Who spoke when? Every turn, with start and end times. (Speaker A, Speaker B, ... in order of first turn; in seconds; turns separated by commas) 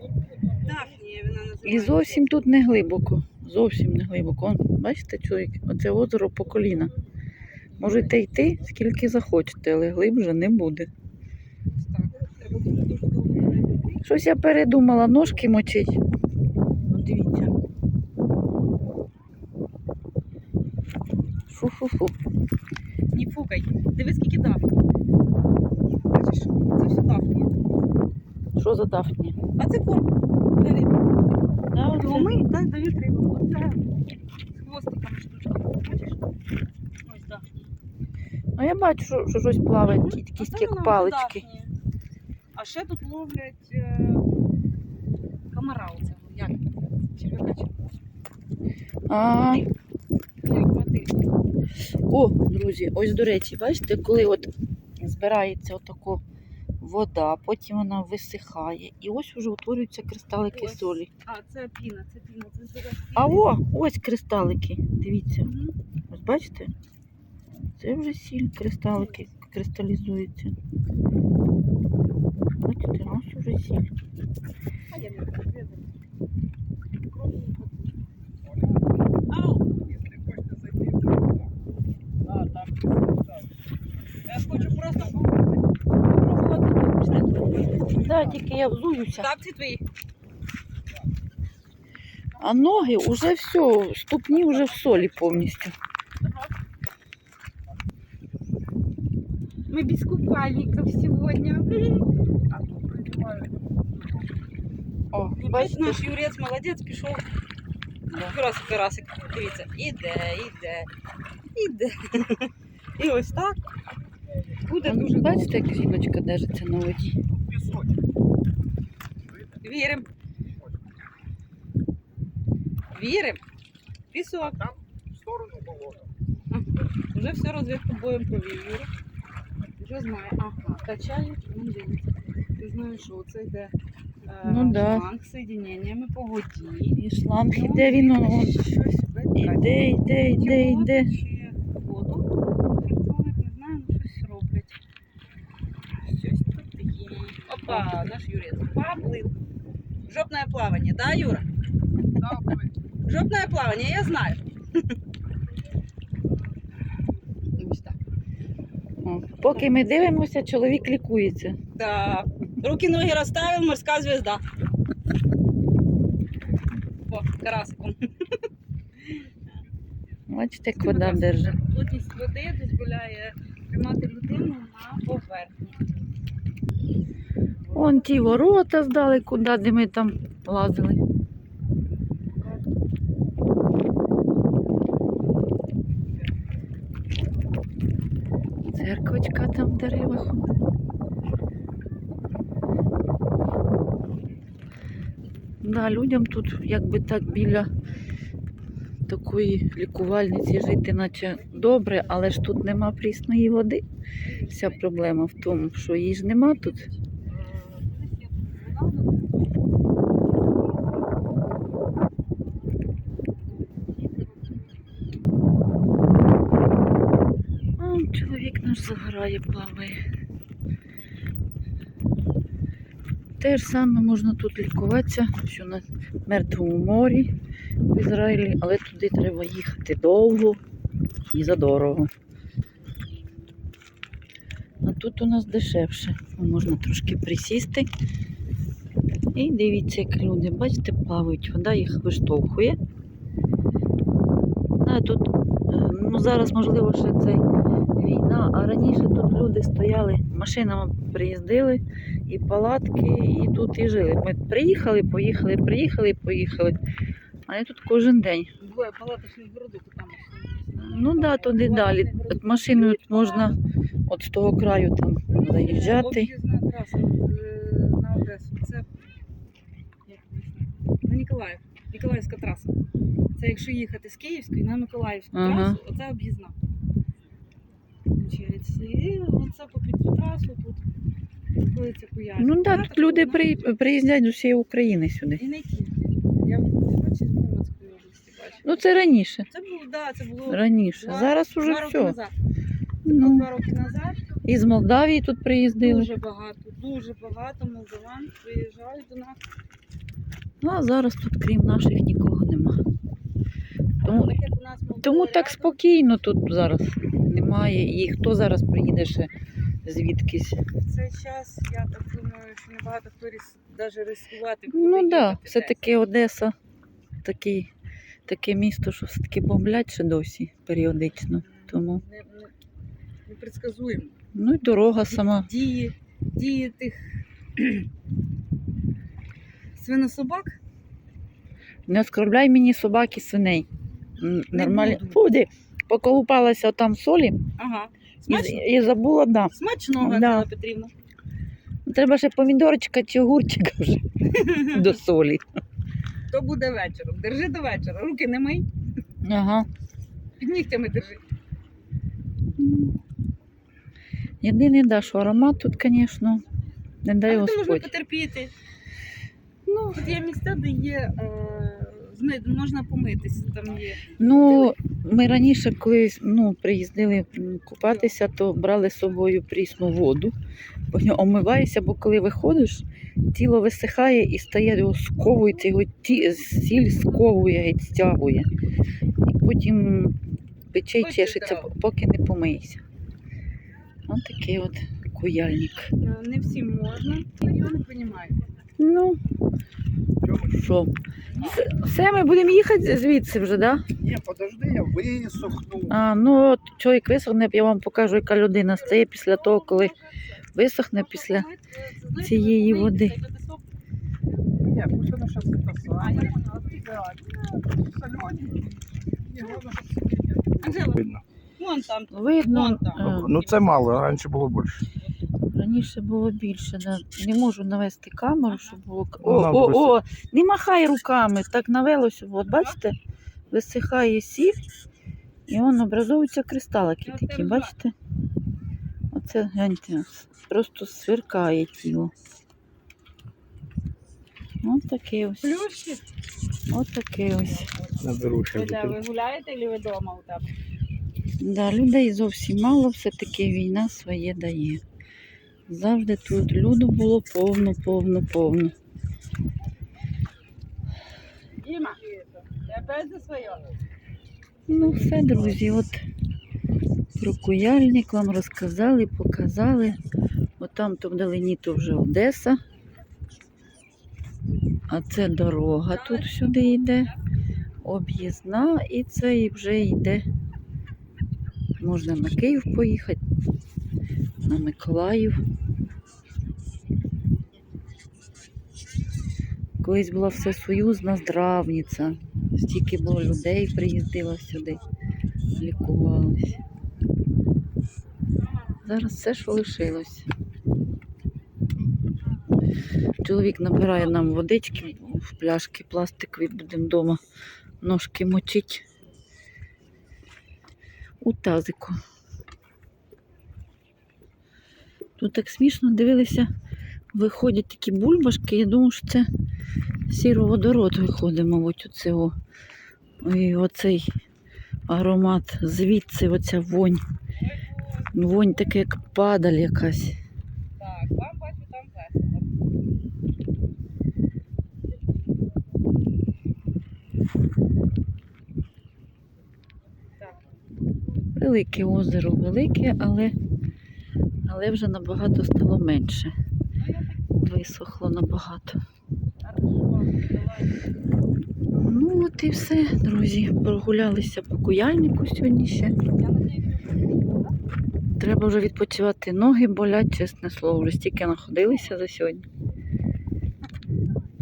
Speaker A: 0.5-2.4, Speaker B: 1.6-6.9, Speaker B: 7.8-10.9, Speaker A: 11.7-14.0, Speaker B: 14.0-16.0, Speaker B: 16.9-17.5, Speaker B: 21.5-22.2, Speaker A: 23.1-24.7, Speaker A: 26.1-27.5, Speaker B: 28.6-29.4, Speaker A: 29.6-31.0, Speaker B: 31.7-32.4, Speaker A: 31.9-33.8, Speaker A: 34.5-36.2, Speaker A: 37.0-37.5, Speaker B: 38.6-41.4, Speaker A: 39.9-41.7, Speaker A: 42.5-44.3, Speaker A: 45.5-47.9, Speaker B: 49.1-49.7, Speaker A: 50.4-51.3, Speaker B: 52.1-56.2, Speaker B: 56.8-61.1, Speaker A: 60.5-63.5, Speaker B: 63.2-65.5, Speaker A: 65.4-65.8, Speaker B: 66.1-66.7, Speaker B: 67.8-70.6, Speaker B: 72.6-73.9, Speaker A: 74.9-75.9, Speaker C: 78.5-78.9, Speaker A: 79.3-79.7, Speaker C: 79.7-81.5, Speaker C: 82.2-83.4, Speaker A: 84.3-85.4, Speaker A: 86.0-88.4, Speaker B: 87.9-89.3, Speaker A: 89.1-89.8, Speaker B: 92.4-95.8, Speaker A: 96.2-96.5, Speaker A: 99.7-102.1, Speaker C: 102.5-103.8, Speaker B: 105.1-106.0, Speaker A: 105.4-107.2, Speaker B: 108.1-108.4, Speaker A: 108.2-110.9, Speaker A: 111.5-113.6, Speaker A: 114.7-115.7, Speaker B: 114.8-117.2, Speaker C: 117.3-118.0, Speaker C: 119.3-119.6, Speaker A: 119.6-120.1, Speaker A: 122.9-123.4, Speaker A: 124.1-124.6, Speaker C: 124.5-126.1, Speaker A: 126.5-128.9, Speaker A: 129.8-133.7, Speaker A: 134.3-144.8, Speaker B: 134.4-135.1, Speaker B: 136.9-138.6, Speaker B: 139.4-141.1, Speaker A: 146.0-149.3, Speaker A: 150.1-151.4, Speaker C: 152.2-152.7, Speaker A: 153.1-154.9, Speaker A: 157.6-158.0, Speaker B: 159.0-161.6, Speaker A: 161.8-164.4, Speaker A: 167.1-168.5, Speaker B: 170.3-171.6, Speaker A: 170.8-175.8, Speaker A: 177.7-178.4, Speaker B: 177.7-181.0, Speaker A: 182.3-182.6, Speaker B: 188.7-190.5, Speaker B: 195.6-197.7, Speaker B: 199.1-203.8, Speaker A: 204.2-204.8, Speaker B: 204.5-206.9, Speaker A: 206.6-209.5, Speaker A: 210.5-211.0, Speaker A: 213.7-214.8, Speaker B: 217.8-220.0, Speaker B: 223.4-227.3, Speaker B: 227.9-230.6, Speaker B: 231.3-232.1, Speaker B: 234.8-237.9, Speaker B: 239.3-242.8, Speaker B: 244.8-247.4, Speaker B: 248.0-256.8, Speaker B: 257.5-258.5, Speaker A: 258.6-263.6, Speaker B: 260.8-266.3, Speaker A: 265.3-268.9, Speaker A: 270.1-272.7, Speaker A: 273.4-276.6, Speaker B: 275.3-275.8, Speaker A: 278.1-280.8, Speaker A: 281.6-283.4, Speaker B: 282.4-285.4, Speaker A: 285.4-288.8, Speaker B: 288.6-289.5, Speaker A: 289.5-292.3, Speaker B: 290.5-292.2, Speaker B: 293.1-293.5, Speaker A: 293.1-294.3, Speaker B: 294.4-296.1, Speaker A: 295.8-299.4, Speaker B: 300.6-302.8, Speaker A: 304.0-305.8, Speaker B: 304.0-304.3, Speaker B: 305.0-309.3, Speaker B: 309.9-310.6, Speaker A: 310.8-315.9, Speaker B: 314.7-316.6, Speaker B: 317.2-317.7, Speaker B: 318.3-322.0, Speaker A: 321.4-322.5, Speaker A: 323.2-324.2, Speaker B: 324.3-325.5, Speaker A: 325.1-327.9, Speaker A: 329.8-330.6, Speaker B: 331.9-333.7, Speaker B: 334.2-337.4, Speaker A: 334.5-335.2, Speaker A: 337.6-338.7, Speaker B: 338.3-340.5, Speaker A: 339.5-340.9, Speaker B: 341.9-345.5, Speaker A: 344.3-344.8, Speaker A: 346.3-348.7, Speaker B: 349.2-349.7, Speaker A: 350.4-351.2, Speaker B: 352.6-352.9, Speaker B: 354.4-356.4, Speaker B: 357.0-357.9, Speaker A: 357.3-358.5, Speaker A: 359.7-364.7, Speaker B: 364.2-370.4, Speaker A: 367.9-368.1, Speaker B: 370.9-378.5, Speaker A: 375.2-377.2, Speaker B: 379.2-380.2, Speaker B: 380.7-382.8, Speaker A: 381.0-381.7, Speaker B: 384.1-385.9, Speaker A: 386.0-388.4, Speaker B: 388.8-389.2, Speaker C: 390.2-390.6, Speaker B: 390.5-393.9, Speaker A: 391.4-391.7, Speaker C: 394.0-396.1, Speaker B: 395.9-399.9, Speaker A: 399.0-400.4, Speaker B: 400.6-401.5, Speaker A: 400.9-403.6, Speaker B: 402.2-403.2, Speaker C: 404.6-411.2, Speaker A: 406.0-407.2, Speaker A: 410.6-411.0, Speaker A: 411.6-413.6, Speaker B: 412.1-413.3, Speaker C: 413.0-414.9, Speaker B: 415.5-423.0, Speaker A: 418.5-418.8, Speaker C: 419.2-420.0, Speaker B: 423.5-424.6, Speaker B: 425.5-427.9, Speaker A: 427.1-427.7, Speaker B: 429.1-432.1, Speaker B: 434.6-435.5, Speaker A: 435.4-436.1, Speaker B: 436.7-437.7, Speaker C: 438.0-439.0, Speaker A: 438.4-440.5, Speaker B: 441.4-444.8, Speaker B: 445.7-448.8, Speaker A: 451.6-453.7, Speaker B: 454.7-456.0, Speaker B: 457.2-460.0, Speaker B: 460.6-462.6, Speaker B: 464.9-467.1, Speaker A: 465.9-467.2, Speaker B: 467.8-470.2, Speaker B: 471.8-473.2, Speaker B: 474.5-475.4, Speaker B: 479.8-484.8, Speaker B: 485.6-486.6, Speaker B: 488.8-490.3, Speaker B: 493.2-497.2, Speaker B: 497.8-498.8, Speaker B: 501.2-502.0, Speaker B: 505.2-506.5, Speaker B: 507.1-509.3, Speaker B: 510.1-512.4, Speaker B: 513.2-514.1, Speaker B: 514.9-517.0, Speaker A: 517.4-518.1, Speaker B: 518.1-520.2, Speaker A: 520.8-522.5, Speaker B: 531.4-533.4, Speaker B: 534.5-536.3, Speaker A: 536.8-537.5, Speaker B: 537.4-538.8, Speaker A: 539.4-540.9, Speaker B: 541.7-546.0, Speaker A: 546.0-547.6, Speaker B: 548.2-552.5